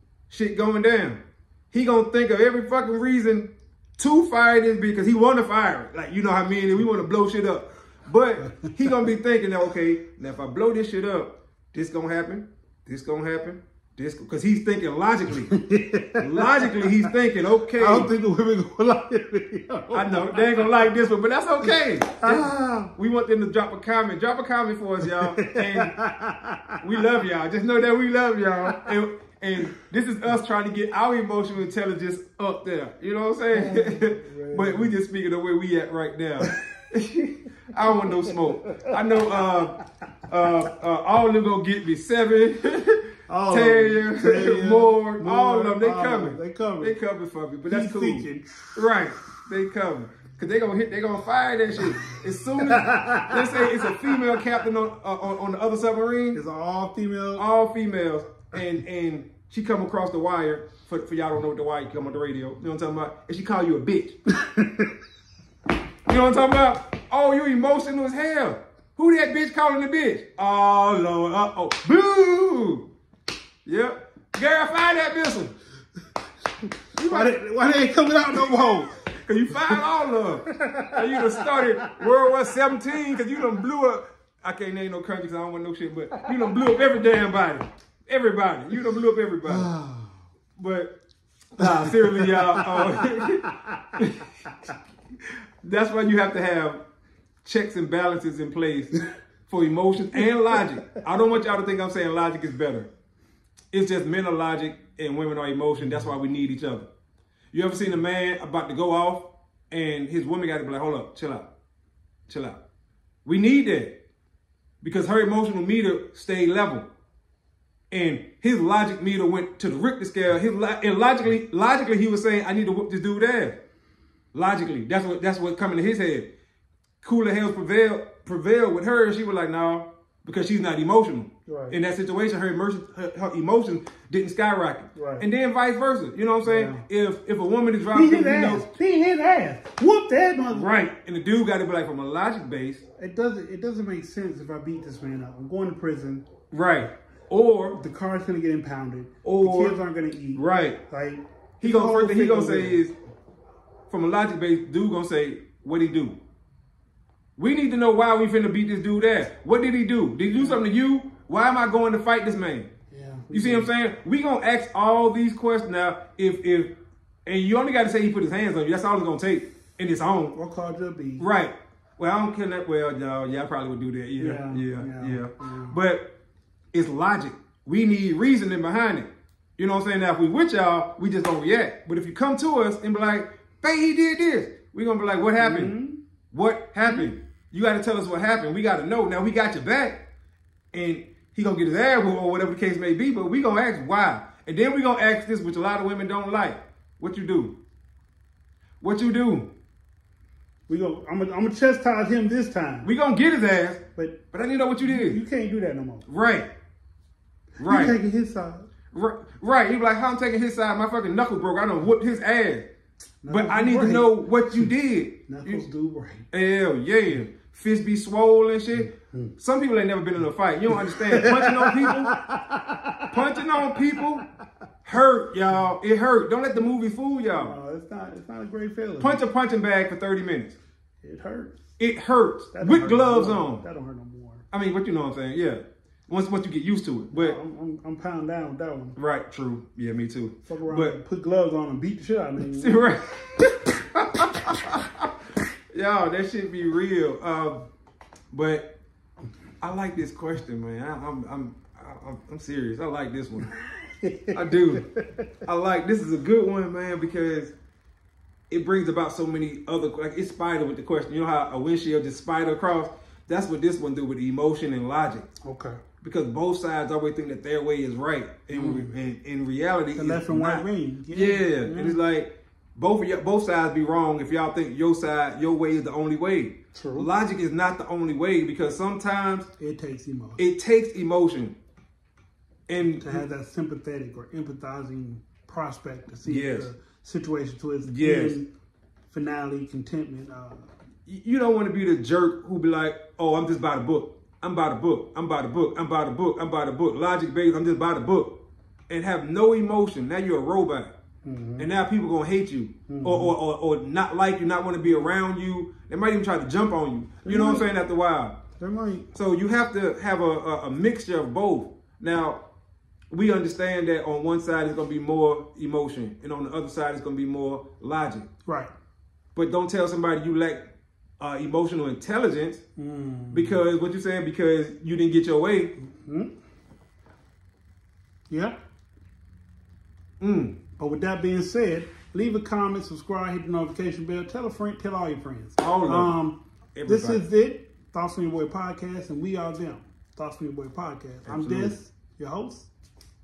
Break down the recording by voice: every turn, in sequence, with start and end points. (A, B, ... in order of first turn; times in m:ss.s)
0:00.3-0:15.5 A
0:08.4-0:08.7 B
0:15.5-0:17.1 B
0:16.2-0:18.1 A
0:17.8-0:20.6 B
0:19.9-0:26.0 A
0:21.7-0:22.9 B
0:25.4-0:26.8 B
0:26.8-0:56.4 A
0:33.5-0:34.9 B
0:43.3-0:47.0 B
0:47.7-0:49.0 B
0:52.7-0:54.0 B
0:56.3-0:57.5 B
0:57.4-1:04.2 A
1:04.4-1:04.9 B
1:06.1-1:12.9 A
1:13.7-1:15.6 A
1:17.0-1:17.3 A
1:17.0-1:19.0 B
1:19.2-1:29.7 A
1:19.6-1:19.8 B
1:20.5-1:22.0 B
1:29.5-1:30.1 B
1:30.6-1:31.0 A
1:31.6-1:34.3 A
1:31.6-1:34.0 B
1:35.2-1:36.8 A
1:37.4-1:42.9 A
1:43.7-1:46.9 A
1:47.5-1:51.5 A
1:52.3-1:52.6 A
1:53.2-1:54.0 A
1:54.8-1:56.9 A
1:57.9-2:03.6 A
2:04.3-2:06.3 A
2:07.0-2:18.7 A
2:11.5-2:11.8 B
2:15.0-2:15.3 B
2:16.4-2:16.8 B
2:17.9-2:20.7 B
2:20.5-2:22.8 A
2:23.0-2:26.3 B
2:26.5-2:27.8 A
2:27.7-2:32.8 B
2:29.2-2:29.8 A
2:30.4-2:30.8 A
2:31.6-2:32.9 A
2:33.9-2:36.2 A
2:37.4-2:42.7 A
2:40.4-2:40.6 B
2:42.9-2:43.7 B
2:43.3-2:46.7 A
2:47.3-2:50.4 A
2:50.3-2:51.3 B
2:51.2-2:56.1 A
2:54.2-2:55.8 B
2:56.7-3:05.7 A
3:05.4-3:06.0 B
3:06.3-3:10.0 A
3:10.7-3:17.6 A
3:18.8-3:19.5 A
3:20.7-3:22.9 B
3:22.8-3:25.2 A
3:24.0-3:24.2 B
3:24.8-3:26.1 B
3:26.1-3:26.5 A
3:27.6-3:28.0 A
3:27.6-3:28.7 B
3:28.9-3:32.7 A
3:33.2-3:34.7 B
3:33.3-3:35.7 A
3:35.3-3:36.3 B
3:36.3-3:42.2 A
3:38.8-3:39.3 B
3:40.8-3:43.2 B
3:43.1-3:44.2 A
3:44.8-3:47.6 A
3:47.4-3:49.2 B
3:49.0-3:50.6 A
3:51.0-3:51.6 B
3:51.8-3:53.6 A
3:52.5-3:54.4 B
3:54.5-3:57.4 A
3:57.1-3:59.0 B
3:59.0-4:01.0 A
4:00.4-4:02.8 B
4:02.4-4:05.1 A
4:05.7-4:07.6 A
4:08.3-4:08.7 A
4:09.6-4:13.5 A
4:14.0-4:15.3 B
4:14.3-4:14.9 A
4:15.5-4:17.5 A
4:18.5-4:25.3 A
4:25.4-4:25.8 B
4:26.0-4:39.5 A
4:28.5-4:29.0 B
4:30.0-4:32.0 B
4:36.7-4:37.1 B
4:39.6-4:40.4 B
4:40.4-4:41.6 A
4:42.7-4:43.2 A
4:42.8-4:48.5 B
4:46.2-4:46.7 A
4:47.8-4:48.4 A
4:49.1-4:50.7 B
4:51.1-5:00.9 A
5:01.2-5:01.7 B
5:01.6-5:08.4 A
5:02.9-5:03.3 B
5:07.2-5:07.7 B
5:08.6-5:09.1 B
5:09.1-5:12.4 A
5:13.1-5:18.3 A
5:18.5-5:18.7 B
5:19.4-5:20.7 A
5:21.2-5:22.6 A
5:22.8-5:23.6 B
5:23.3-5:25.7 A
5:25.9-5:26.3 B
5:28.3-5:28.6 B
5:30.2-5:30.6 A
5:30.8-5:42.7 B
5:35.6-5:36.2 A
5:36.8-5:37.2 A
5:41.3-5:41.8 A